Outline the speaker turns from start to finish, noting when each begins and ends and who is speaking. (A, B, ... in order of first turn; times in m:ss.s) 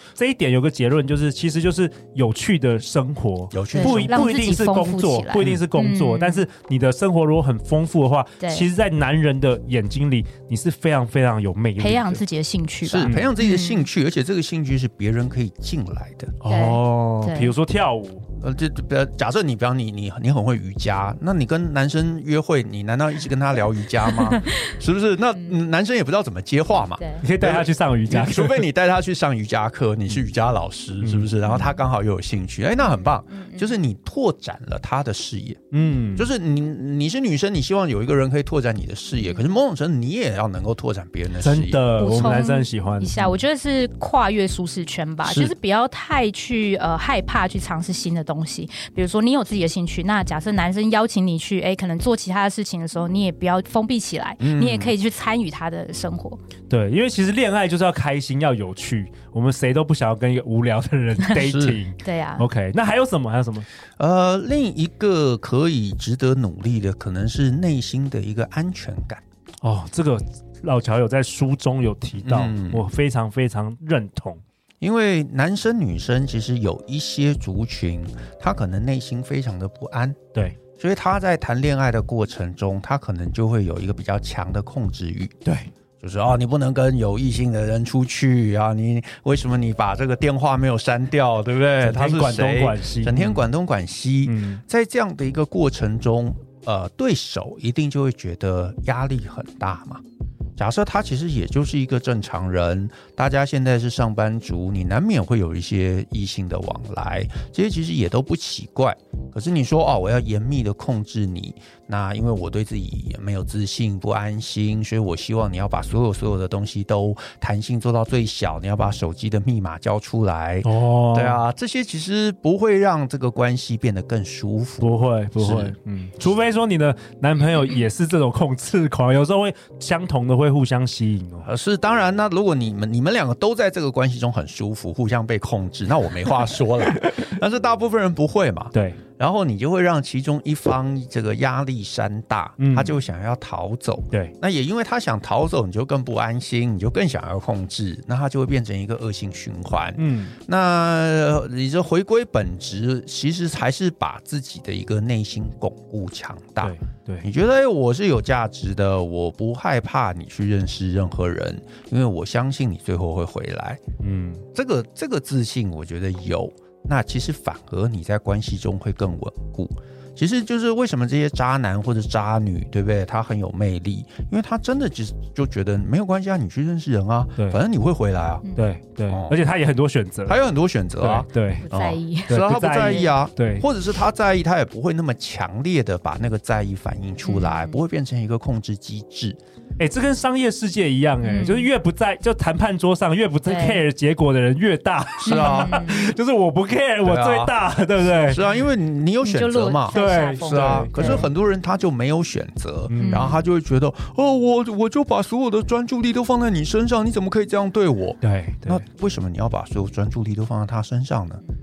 0:00.2-0:12.2 A
0:03.5-0:04.3 B
0:03.7-0:06.4 C
0:08.4-0:08.7 C
0:11.8-0:13.9 C
0:12.8-0:16.4 B
0:13.0-0:13.3 A
0:16.4-0:18.2 A
0:16.5-0:17.5 C
0:18.4-0:42.4 B
0:24.1-0:24.7 C
0:27.0-0:27.2 C
0:27.2-0:28.7 A
0:31.0-0:31.3 A
0:31.4-0:31.8 C
0:33.3-0:33.7 C
0:35.7-0:36.3 A
0:41.4-0:43.3 A
0:42.0-0:56.4 C
0:45.2-0:45.5 B
0:54.4-0:54.9 B
0:56.7-1:03.6 A
1:01.4-1:01.8 B
1:02.0-1:02.4 C
1:04.0-1:09.2 B
1:09.6-1:14.4 A
1:12.2-1:12.8 B
1:14.8-1:20.2 B
1:20.8-1:25.4 B
1:25.4-1:25.7 A
1:26.0-1:40.0 B
1:31.8-1:33.4 A
1:34.2-1:34.6 A
1:40.6-2:05.7 B
2:00.6-2:01.4 A
2:04.8-2:11.5 A
2:11.4-2:43.8 B
2:18.7-2:19.0 A
2:22.6-2:22.9 A
2:30.0-2:30.3 A
2:36.6-2:37.3 A
2:44.0-2:44.4 A
2:44.5-2:58.5 B
2:58.6-3:00.4 A
2:59.1-2:59.4 B
3:00.3-3:09.4 B
3:01.0-3:01.7 A
3:01.6-3:03.1 C
3:02.3-3:03.6 A
3:07.2-3:07.8 C
3:09.8-3:18.4 A
3:11.2-3:11.7 C
3:13.4-3:13.8 C
3:15.2-3:15.9 B
3:15.2-3:16.1 C
3:17.0-3:17.5 B
3:18.1-3:31.4 B
3:19.2-3:21.3 C
3:19.9-3:21.2 A
3:22.9-3:23.3 A
3:23.0-3:23.4 C
3:28.2-3:28.8 A